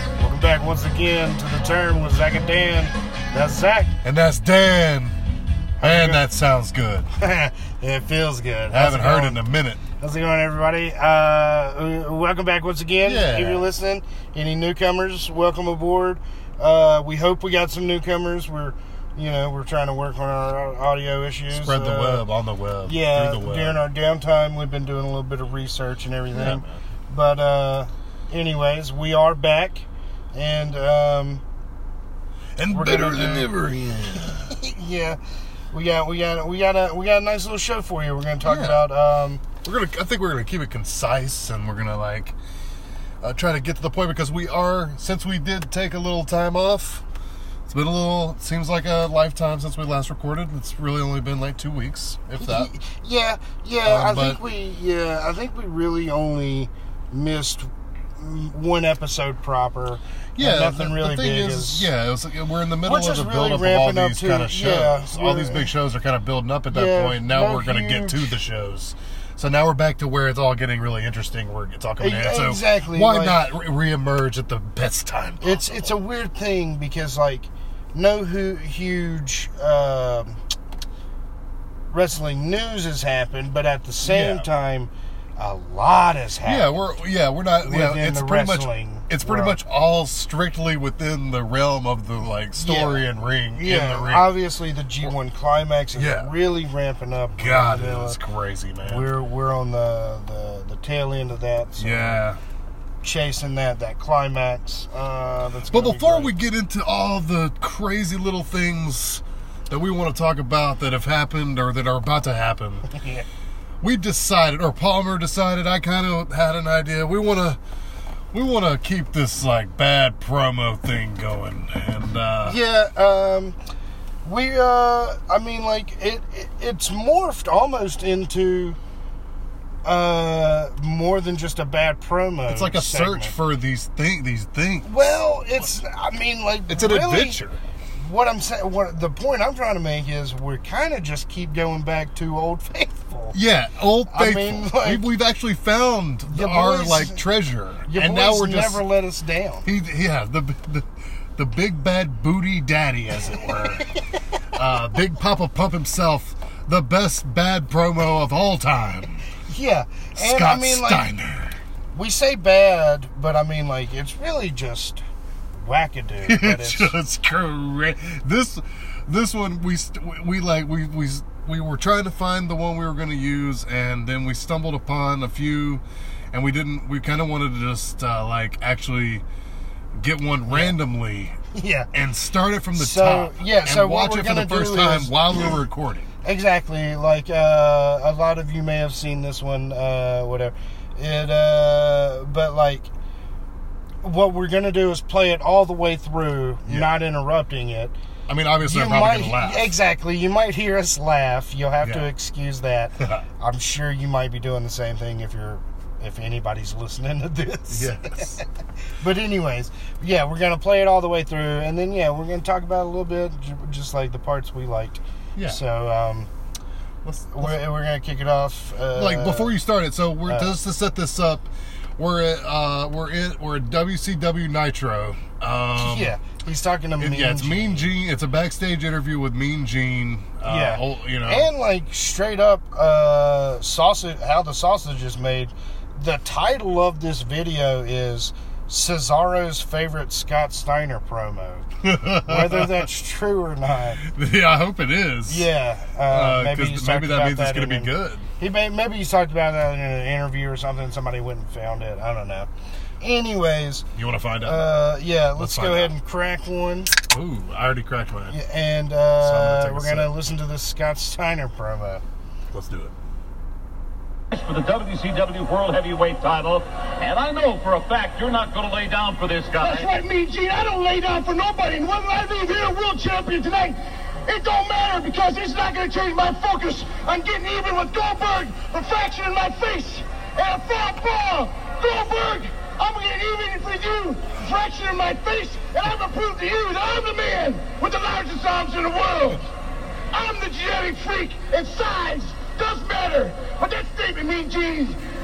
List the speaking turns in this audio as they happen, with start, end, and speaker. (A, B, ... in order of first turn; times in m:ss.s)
0:00.2-0:04.0 A
0:04.0-0:05.2 B
0:05.8-0:06.2 A
0:05.8-0:07.1 B
0:07.2-0:09.4 A
0:08.7-0:09.8 B
0:10.0-0:22.2 A
0:13.0-0:13.7 B
0:21.5-0:23.8 B
0:22.8-0:31.4 A
0:26.3-0:26.8 B
0:32.6-0:34.6 B
0:32.7-0:33.5 A
0:34.4-0:35.2 A
0:35.7-0:39.4 A
0:38.4-0:38.8 B
0:39.6-0:42.4 B
0:43.2-0:47.0 B
0:47.7-0:52.7 B
0:52.4-1:01.9 A
0:53.8-0:54.4 B
1:00.4-1:15.9 B
1:02.8-1:05.7 A
1:06.7-1:08.3 A
1:12.0-1:13.4 A
1:15.4-1:20.4 A
1:21.9-1:26.7 A
1:24.0-1:24.5 B
1:26.4-1:34.3 B
1:27.6-1:29.6 A
1:32.6-1:38.2 A
1:36.0-1:36.3 B
1:37.4-1:39.1 B
1:38.8-1:42.2 A
1:41.8-1:42.4 B
1:43.0-1:46.4 A
1:45.7-1:52.9 B
1:52.9-1:53.3 A
1:53.8-1:57.6 B
1:58.3-2:02.6 B
2:02.4-2:03.6 A
2:04.2-2:08.8 A
2:09.8-2:13.4 A
2:12.5-2:14.9 B
2:14.8-2:17.4 A
2:16.7-2:17.6 B
2:18.0-2:23.4 A
2:23.3-2:28.9 B
2:24.1-2:25.1 A
2:26.3-2:27.2 A
2:27.9-2:29.7 A
2:29.6-2:33.9 B
2:33.8-2:34.1 A
2:34.5-2:39.2 B
2:39.5-2:41.1 A
2:40.2-2:41.6 B
2:41.9-2:45.0 A
2:45.6-2:46.9 A
2:46.2-2:59.2 B
2:59.9-3:01.4 B
3:00.5-3:00.8 A
3:01.5-3:01.9 A
3:01.9-3:06.1 B
3:02.7-3:05.2 A
3:06.2-3:12.9 A
3:14.0-3:18.0 A
3:16.7-3:16.9 B
3:18.3-3:19.8 B
3:18.6-3:28.4 A
3:21.8-3:22.1 B
3:23.0-3:23.2 B
3:27.7-3:28.4 B
3:29.0-3:36.3 A
3:35.4-3:35.6 B
3:37.0-3:37.6 B
3:37.3-3:39.6 A
3:38.9-3:46.2 B
3:40.3-3:40.5 A
3:45.8-3:48.0 A
3:47.0-3:51.5 B
3:50.4-4:01.7 A
4:01.8-4:02.9 B
4:02.2-4:04.0 A
4:04.0-4:05.5 B
4:05.3-4:12.5 A
4:06.0-4:08.3 B
4:13.0-4:13.9 A
4:13.9-4:16.0 B
4:14.4-4:17.0 A
4:17.1-4:18.4 B
4:18.3-4:22.0 A
4:19.2-4:20.1 B
4:22.5-4:23.0 B
4:24.3-4:29.9 C
4:29.6-4:49.4 D
4:50.1-4:55.0 D